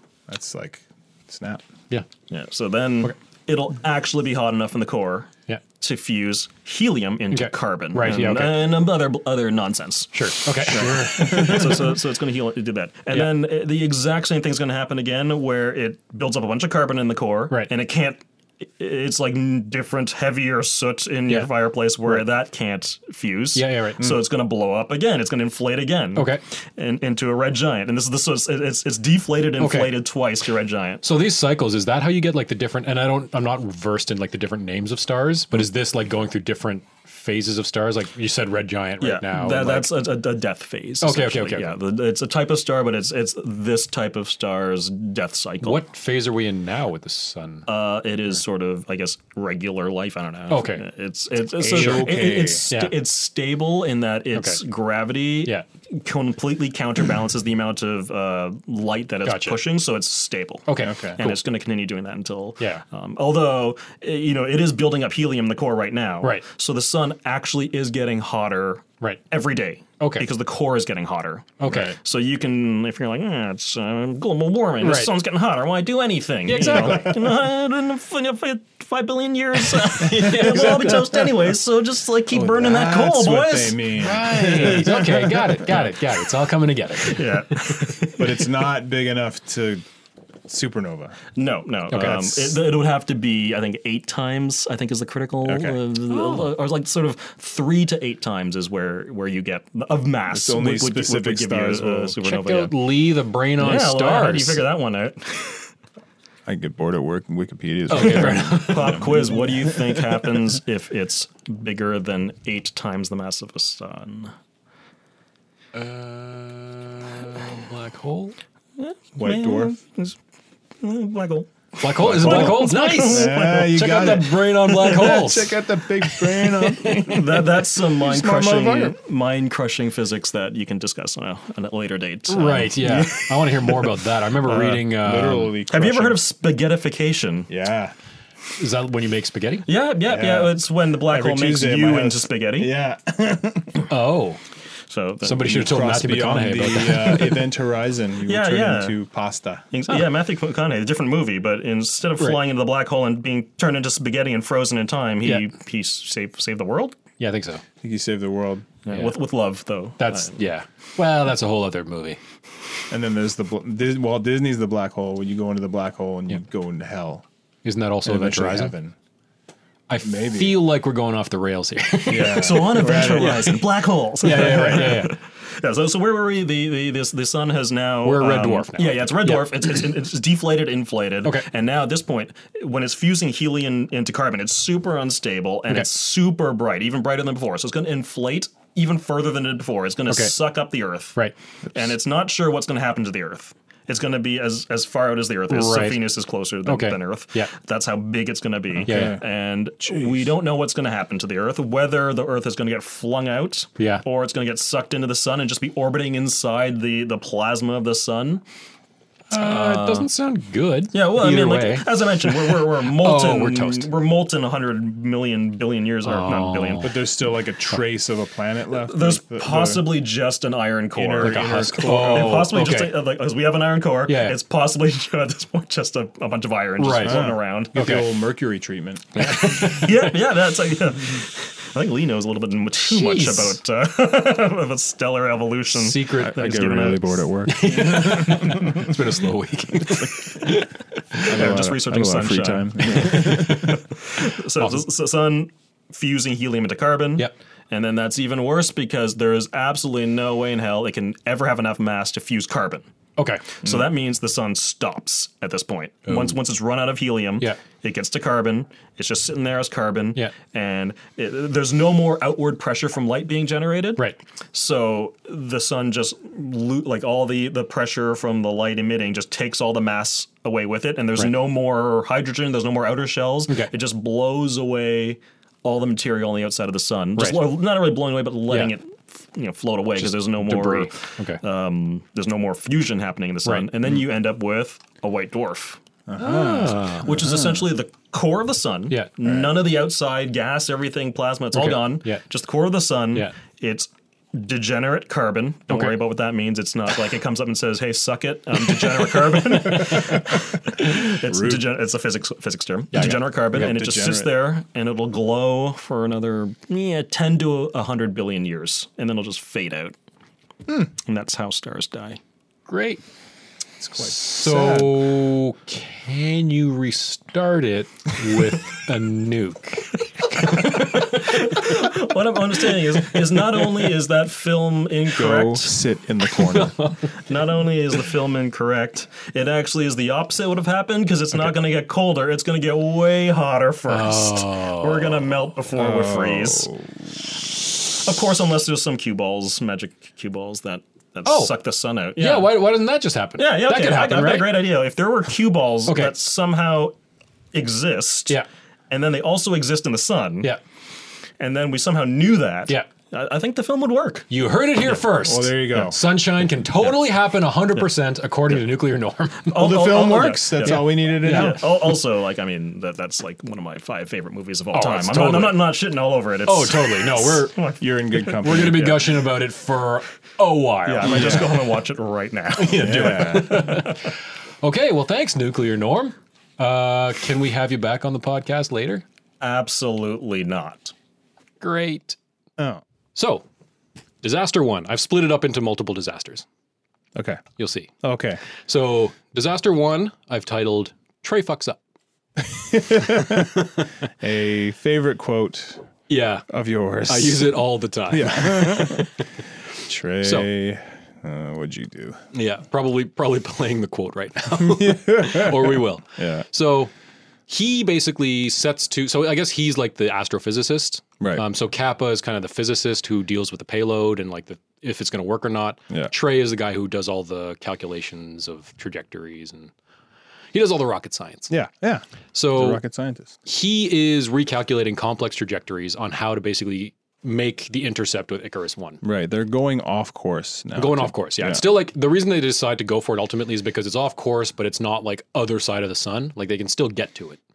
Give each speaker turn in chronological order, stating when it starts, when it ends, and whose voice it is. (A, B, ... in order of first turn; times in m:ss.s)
0:00.3-0:01.6 A
0:02.3-0:31.0 B
0:07.3-0:08.7 C
0:10.1-0:11.9 C
0:10.8-0:11.8 A
0:23.6-0:24.1 C
0:26.2-0:26.4 C
0:29.6-0:30.0 C
0:31.0-0:39.9 C
0:39.0-0:45.8 B
0:41.0-0:41.8 C
0:45.6-0:47.7 C
0:47.7-1:24.8 B
0:50.5-0:50.9 C
0:51.6-0:52.7 A
0:51.8-0:52.1 C
0:52.7-0:53.0 C
0:54.3-0:54.6 C
0:59.2-0:59.6 C
1:00.7-1:01.4 C
1:00.8-1:01.2 A
1:10.0-1:10.3 C
1:11.6-1:12.0 C
1:14.8-1:15.1 C
1:16.5-1:17.2 C
1:19.8-1:21.1 C
1:20.4-1:20.9 A
1:22.3-1:25.8 A
1:24.0-1:27.6 C
1:27.0-1:28.5 B
1:28.2-1:29.8 A
1:30.5-1:31.2 A
1:31.4-1:42.8 B
1:31.9-1:32.4 C
1:35.4-1:35.8 A
1:36.1-1:36.5 C
1:40.3-1:42.2 A
1:42.2-1:44.6 C
1:43.6-1:45.7 B
1:46.5-1:50.0 A
1:47.9-1:49.1 C
1:47.9-1:54.3 B
1:55.7-1:58.4 C
1:58.8-2:00.2 B
1:59.2-1:59.8 A
2:00.8-2:03.8 B
2:01.8-2:07.1 C
2:02.0-2:09.0 A
2:06.9-2:14.0 B
2:12.3-2:15.6 C
2:14.5-2:16.2 A
2:15.7-2:17.5 B
2:17.5-2:17.9 A
2:18.6-2:19.7 C
2:19.7-2:22.7 B
2:20.1-2:23.9 A
2:23.9-2:24.4 C
2:24.9-2:25.6 B
2:25.2-2:27.4 C
2:25.4-2:29.6 A
2:28.2-2:29.0 B
2:29.7-2:37.0 B
2:37.2-2:37.6 C
2:37.8-2:38.7 A
2:38.8-2:40.4 B
2:40.0-2:42.2 C
2:42.9-2:47.2 A
2:47.6-2:48.8 C
2:48.0-2:49.0 A
2:49.9-2:53.6 C
2:50.0-2:50.6 A
2:52.1-2:53.7 A
2:52.2-3:11.2 B
2:54.2-2:55.2 C
2:54.4-2:54.7 A
2:58.0-2:59.7 C
3:10.1-3:10.3 C
3:11.7-3:28.4 B
3:15.5-3:16.1 C
3:16.6-3:17.5 C
3:18.8-3:19.2 A
3:18.9-3:19.2 C
3:19.8-3:20.3 A
3:23.8-3:24.0 C
3:29.3-3:33.9 C
3:29.3-3:30.1 B
3:30.9-3:36.9 B
3:36.0-3:37.0 C
3:36.8-3:39.9 A
3:38.7-3:48.0 B
3:41.0-3:42.4 A
3:41.2-3:43.0 C
3:44.1-3:44.4 C
3:46.8-3:48.1 C
3:47.0-3:49.8 A
3:49.2-3:50.1 C
3:49.5-3:57.2 B
3:52.8-3:53.6 C
3:55.7-3:56.5 C
3:56.2-3:59.0 A
3:57.5-4:01.6 C
4:01.3-4:03.7 A
4:01.3-4:12.9 B
4:02.9-4:03.8 C
4:04.6-4:04.8 C
4:13.2-4:13.5 C
4:13.6-4:45.8 B
4:16.1-4:16.4 C
4:37.2-4:37.5 C
4:40.0-4:41.4 C
4:46.1-4:47.5 A
4:46.2-4:47.3 C
4:47.0-5:10.0 B
4:49.2-4:49.5 A
4:51.5-4:52.2 C
4:55.7-4:56.0 C
4:58.7-5:00.2 C
4:59.9-5:00.2 A
5:01.3-5:01.6 A
5:02.9-5:03.2 C
5:03.5-5:04.4 A
5:11.0-5:12.2 B
5:12.7-5:13.0 C
5:13.8-5:15.1 A
5:14.0-5:22.0 C
5:20.4-5:25.8 B
5:22.6-5:23.8 C
5:25.2-5:26.8 A
5:26.3-5:27.3 C
5:27.2-5:36.7 B
5:33.9-5:35.3 C
5:35.8-5:37.2 A
5:37.9-5:42.7 B
5:41.2-5:41.5 C
5:42.2-5:44.6 C
5:43.4-5:47.0 B
5:45.9-5:46.2 C
5:47.5-5:48.4 B
5:48.9-5:50.5 B
5:51.4-5:54.3 B
5:54.3-5:59.8 C
5:55.1-5:56.0 A
5:59.5-6:08.7 B
5:59.5-6:01.7 A
6:00.6-6:01.6 C
6:04.7-6:05.7 C
6:06.5-6:07.6 C
6:07.8-6:09.1 A
6:08.4-6:11.6 C
6:10.9-6:14.1 B
6:11.0-6:11.5 A
6:12.6-6:19.0 C
6:12.8-6:13.7 A
6:19.4-6:20.9 B
6:21.6-6:22.2 C
6:23.2-6:23.4 C
6:24.2-6:26.5 C
6:27.2-6:27.4 A
6:27.6-6:27.9 C
6:28.0-6:28.4 A
6:28.5-6:31.8 C
6:32.4-6:33.6 A
6:33.0-6:33.9 C
6:34.2-6:35.9 A
6:36.1-6:36.5 C
6:36.5-6:39.1 A
6:37.1-6:39.2 C
6:39.8-6:42.2 A
6:40.2-6:40.5 C
6:42.3-6:46.9 C
6:44.6-6:46.4 A
6:47.5-6:59.7 C
6:51.2-6:51.4 A
7:00.5-7:01.5 C
7:01.5-7:03.4 A
7:02.3-7:02.8 C
7:03.5-7:09.0 C
7:09.0-7:11.6 A
7:10.8-7:17.4 C